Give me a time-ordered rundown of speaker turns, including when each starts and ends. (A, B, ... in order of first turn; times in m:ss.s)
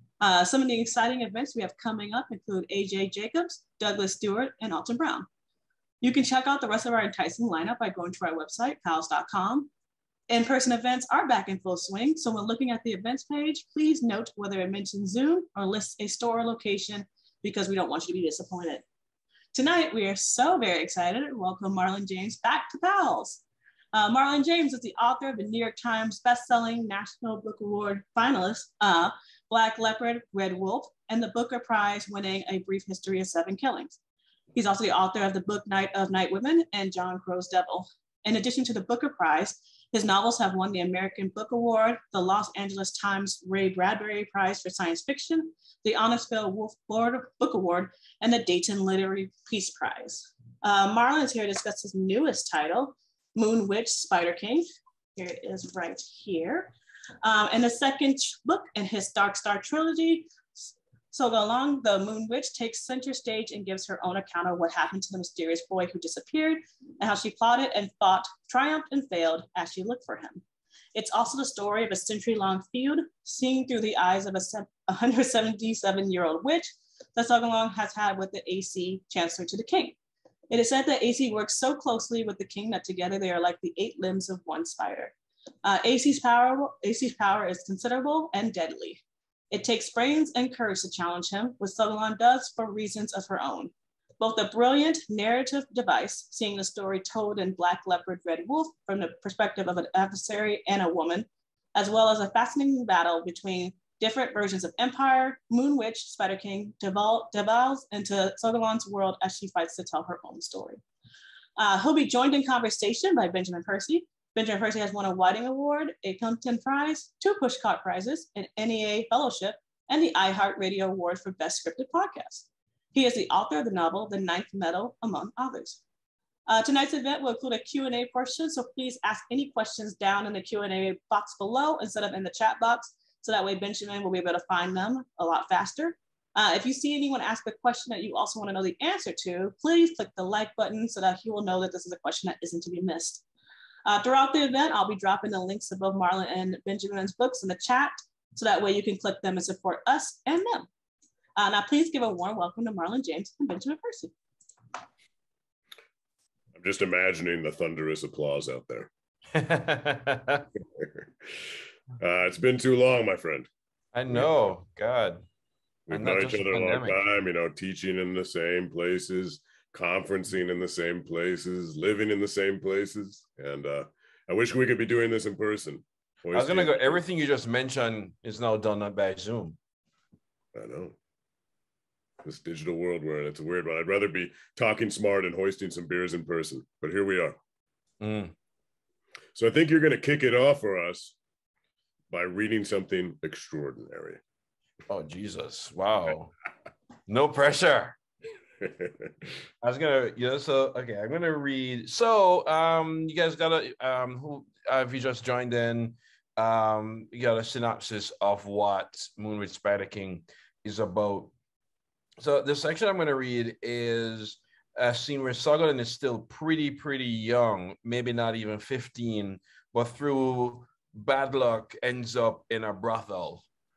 0:00.2-0:05.3 A
0:06.0-0:09.7 A
0:10.3-0:18.8 A
0:19.5-0:34.0 A
0:34.5-0:54.6 A
0:55.2-1:00.3 A
1:01.1-1:10.4 A
1:10.9-1:20.0 A
1:20.5-1:50.8 A
1:51.6-2:05.8 A
2:06.5-2:23.2 A
2:23.8-2:30.7 A
2:31.4-2:34.1 A
2:36.6-2:38.9 B
2:39.3-2:40.5 C
2:40.8-2:43.5 B
2:43.9-2:45.2 C
2:45.9-2:57.0 B
2:45.9-2:47.0 C
2:56.3-2:59.6 C
3:00.5-3:01.0 B
3:02.2-3:07.4 B
3:08.0-3:08.3 C
3:09.3-3:11.2 B
3:12.1-3:14.2 B
3:14.9-3:16.3 C
3:17.1-3:18.0 C
3:18.6-3:19.1 B
3:19.6-3:31.3 C
3:32.2-3:43.4 C